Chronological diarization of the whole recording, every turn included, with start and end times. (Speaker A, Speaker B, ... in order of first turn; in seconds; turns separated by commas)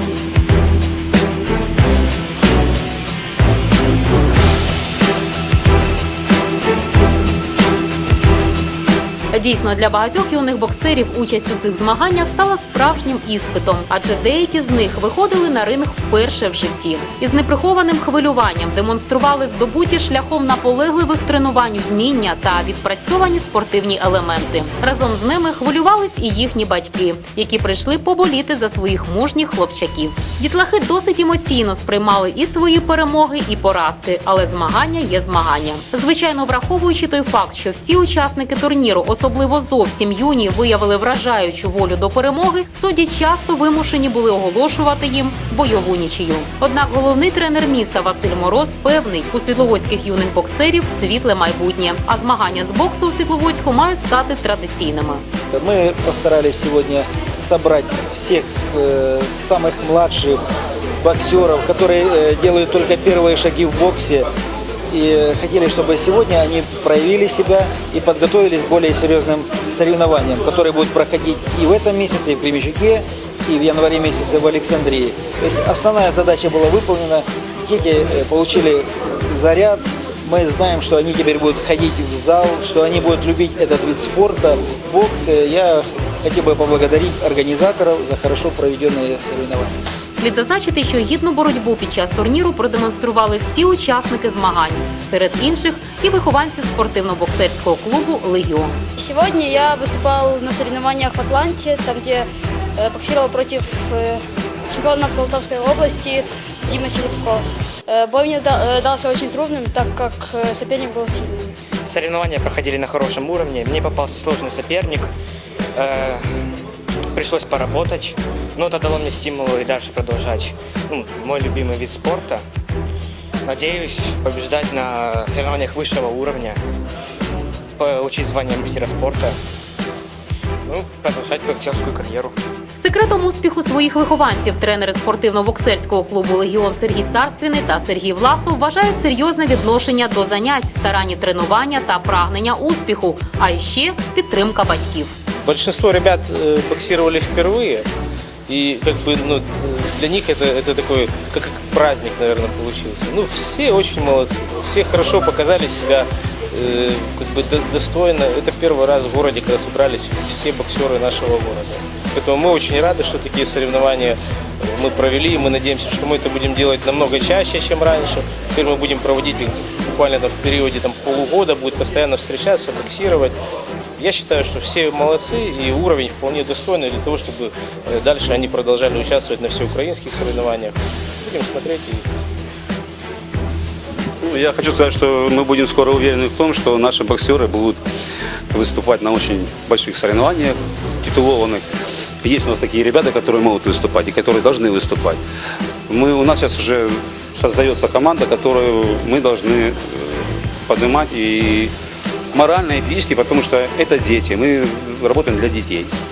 Speaker A: 9.3-55.2, Speaker B: 55.5-60.4, Speaker B: 61.0-64.2, Speaker B: 64.9-89.7, Speaker A: 90.2-98.8, Speaker C: 99.0-111.5, Speaker D: 111.8-115.1, Speaker D: 115.7-116.2, Speaker D: 117.1-122.4, Speaker D: 123.4-126.6, Speaker D: 127.8-129.3, Speaker D: 130.7-132.3, Speaker A: 132.8-145.1, Speaker E: 145.4-147.9, Speaker E: 148.5-173.4, Speaker E: 174.0-182.0, Speaker F: 184.2-187.8, Speaker F: 188.5-191.6, Speaker F: 192.2-195.2, Speaker F: 195.9-201.7, Speaker F: 202.3-205.9